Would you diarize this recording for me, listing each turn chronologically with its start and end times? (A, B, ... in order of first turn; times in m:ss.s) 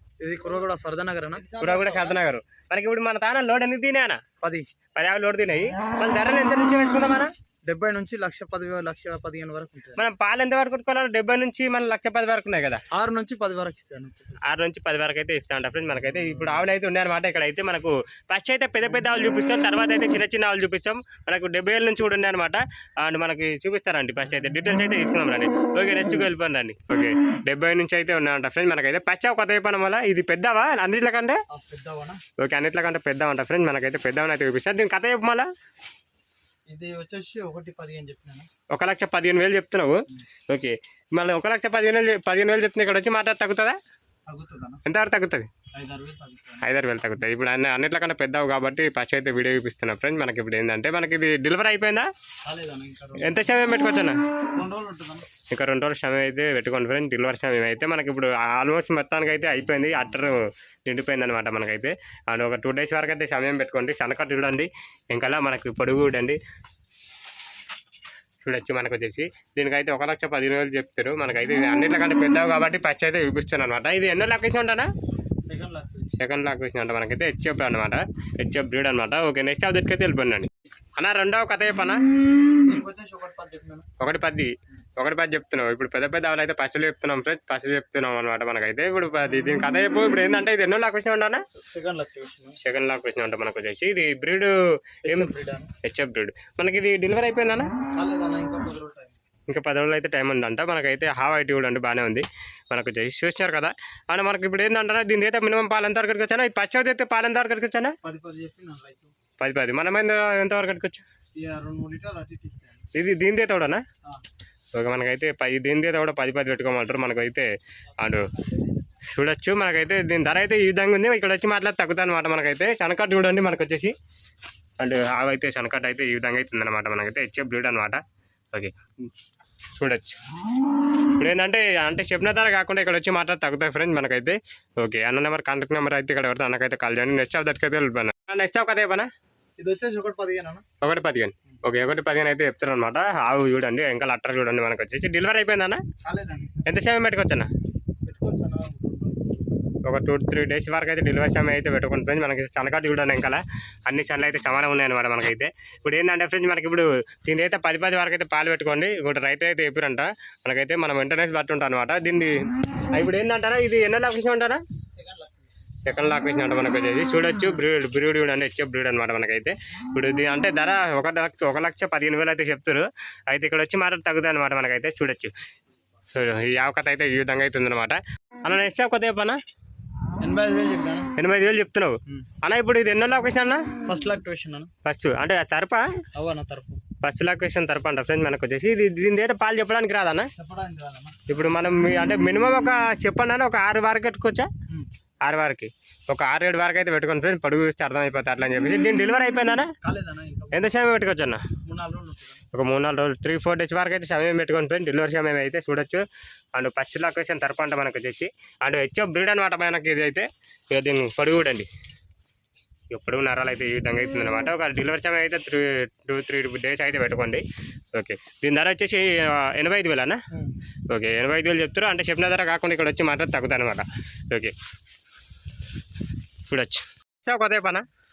0:00.2-0:02.2 A
0:01.5-0:04.2 B
0:05.0-0:07.3 B
0:07.6-0:10.0 A
0:10.0-0:12.8 B
0:12.9-0:14.4 A
0:14.4-0:31.4 B
0:31.5-0:32.2 A
0:32.4-0:35.5 B
0:36.7-0:38.5 A
0:38.7-0:43.8 B
0:44.3-0:44.8 A
0:44.8-0:45.5 B
0:45.8-0:46.7 A
0:46.6-0:52.1 B
0:52.4-0:53.4 A
0:53.2-0:54.2 B
0:54.6-0:55.3 A
0:55.5-1:06.4 B
1:08.4-1:14.9 B
1:15.5-1:16.1 A
1:16.2-1:22.0 B
1:22.6-1:23.9 A
1:24.0-1:31.4 B
1:31.6-1:32.6 A
1:32.6-1:34.5 B
1:35.1-1:37.7 B
1:35.1-1:35.7 A
1:37.9-1:39.2 A
1:39.5-1:48.0 B
1:48.0-1:49.1 A
1:49.4-1:51.0 B
1:51.4-1:52.8 A
1:52.9-1:53.8 B
1:54.8-1:58.3 B
1:58.4-1:58.7 A
1:59.1-2:03.9 B
2:04.8-2:08.0 B
2:09.8-2:10.2 B
2:11.0-2:19.1 B
2:19.6-2:20.6 A
2:20.8-2:25.8 B
2:26.0-2:26.6 A
2:26.6-2:27.5 B
2:28.0-2:29.6 A
2:29.8-2:42.4 B
2:42.9-2:44.6 B
2:44.9-2:45.4 A
2:45.8-2:55.3 B
2:56.1-2:59.4 B
3:00.2-3:01.1 A
3:01.2-3:03.7 B
3:03.8-3:04.7 A
3:04.8-3:06.0 B
3:06.2-3:06.8 A
3:07.0-3:10.3 B
3:10.4-3:11.2 A
3:11.3-3:14.5 B
3:15.2-3:19.7 B
3:19.8-3:20.7 A
3:20.5-3:21.4 B
3:21.6-3:22.4 A
3:22.5-3:31.7 B
3:32.9-3:40.2 B
3:40.9-3:44.5 B
3:46.5-3:47.9 B